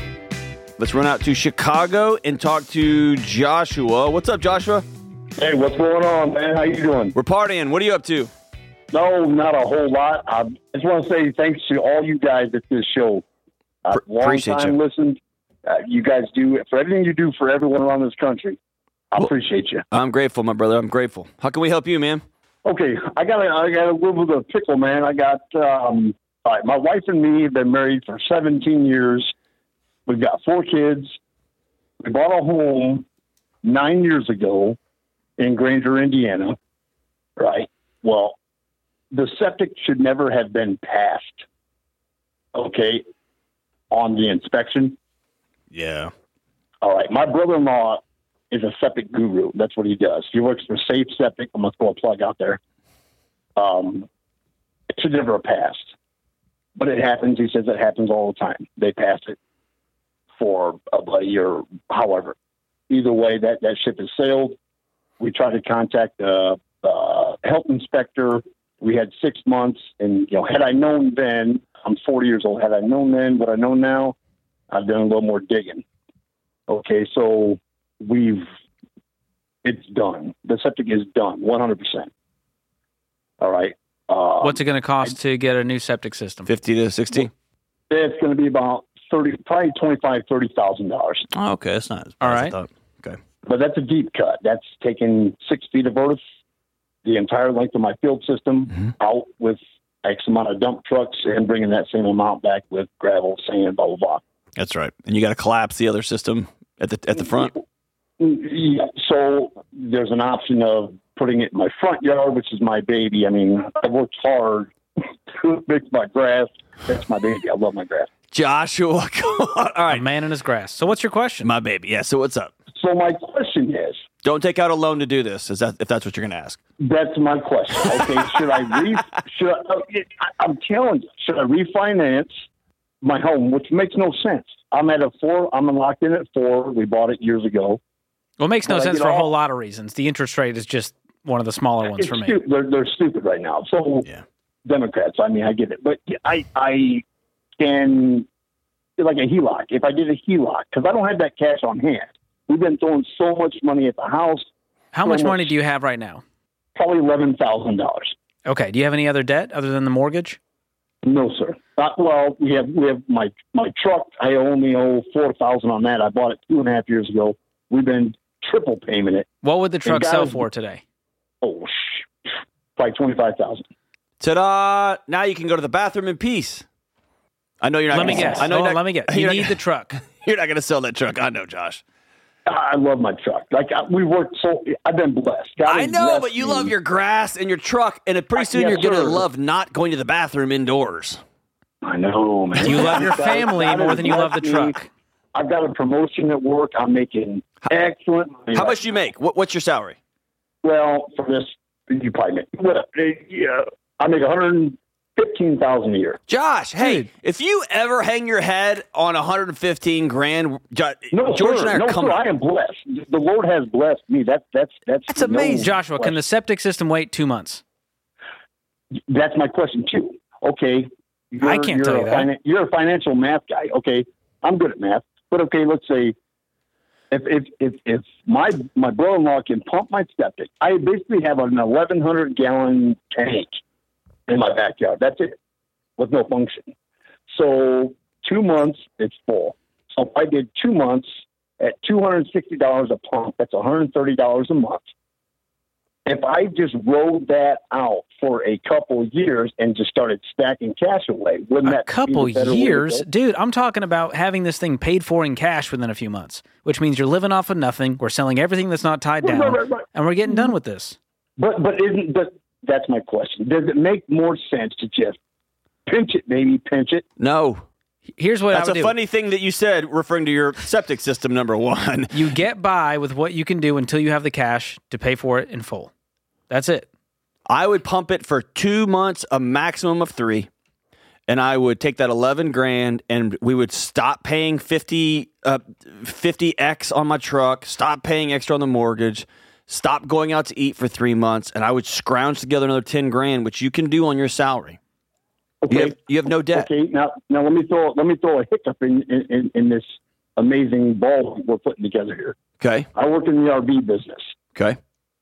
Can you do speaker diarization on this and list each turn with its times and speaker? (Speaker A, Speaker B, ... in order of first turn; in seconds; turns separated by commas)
Speaker A: 0.8-4.8, Speaker B: 5.4-7.1, Speaker A: 7.1-8.3, Speaker B: 8.9-13.2, Speaker B: 13.8-18.6, Speaker A: 13.9-14.8, Speaker B: 19.1-19.8, Speaker A: 19.9-22.2, Speaker B: 22.6-29.3, Speaker B: 30.1-31.1, Speaker B: 32.0-33.0, Speaker B: 33.6-34.8, Speaker B: 35.4-36.5, Speaker B: 37.4-38.4, Speaker B: 39.1-41.4, Speaker B: 42.5-43.0, Speaker B: 43.9-45.0, Speaker A: 45.7-46.1, Speaker B: 46.8-52.6, Speaker B: 53.5-54.1, Speaker B: 55.0-55.9, Speaker B: 56.8-59.4, Speaker B: 60.4-62.3, Speaker B: 62.9-64.5, Speaker B: 65.2-74.2, Speaker B: 74.7-75.8, Speaker B: 76.7-78.5, Speaker B: 79.6-82.1, Speaker B: 83.4-85.1, Speaker C: 84.4-86.5, Speaker A: 86.5-87.3, Speaker B: 87.9-91.3, Speaker A: 91.3-93.2, Speaker C: 92.2-92.5, Speaker B: 93.5-96.2, Speaker B: 97.0-104.2, Speaker A: 104.5-107.5, Speaker B: 108.2-114.7, Speaker B: 115.3-118.1, Speaker A: 118.3-120.1, Speaker C: 119.9-121.5, Speaker A: 121.4-122.5, Speaker B: 122.8-124.0, Speaker A: 124.2-126.6, Speaker B: 126.8-132.3, Speaker B: 133.0-137.8, Speaker C: 138.4-142.4, Speaker B: 138.7-139.3, Speaker B: 141.8-144.1, Speaker B: 144.7-147.0, Speaker B: 147.6-148.3, Speaker B: 149.0-154.4, Speaker C: 154.9-156.2, Speaker B: 155.0-155.5, Speaker B: 156.8-158.1, Speaker C: 158.4-160.4, Speaker B: 161.0-169.3, Speaker C: 169.4-170.8, Speaker B: 169.8-170.4, Speaker B: 171.4-172.1, Speaker B: 172.8-173.6, Speaker A: 174.2-176.6, Speaker A: 177.6-181.8, Speaker C: 177.9-180.0, Speaker B: 178.0-178.4, Speaker B: 182.4-186.7, Speaker A: 185.6-191.2, Speaker B: 188.3-189.2, Speaker B: 191.8-194.8, Speaker C: 192.6-194.9, Speaker B: 195.3-198.8, Speaker A: 198.5-200.0, Speaker B: 200.6-206.2, Speaker A: 206.3-212.2, Speaker C: 206.8-207.1, Speaker B: 211.1-216.2, Speaker A: 215.1-215.7, Speaker C: 215.3-217.6, Speaker B: 219.1-226.1, Speaker C: 221.4-222.3, Speaker B: 227.1-233.6, Speaker B: 234.3-235.4, Speaker B: 236.0-236.7, Speaker B: 237.3-241.1, Speaker B: 241.6-244.8, Speaker B: 246.1-253.1, Speaker C: 251.6-261.0, Speaker B: 259.2-260.5, Speaker B: 261.4-265.1, Speaker B: 265.9-267.0, Speaker A: 267.2-267.6, Speaker C: 268.2-268.9, Speaker A: 268.5-272.3, Speaker C: 272.1-275.9, Speaker C: 276.5-276.9, Speaker A: 277.5-280.5, Speaker A: 281.3-294.8, Speaker B: 295.6-295.9, Speaker A: 295.7-296.7, Speaker B: 296.5-299.8, Speaker B: 300.4-302.4, Speaker A: 302.6-302.9, Speaker B: 302.9-304.3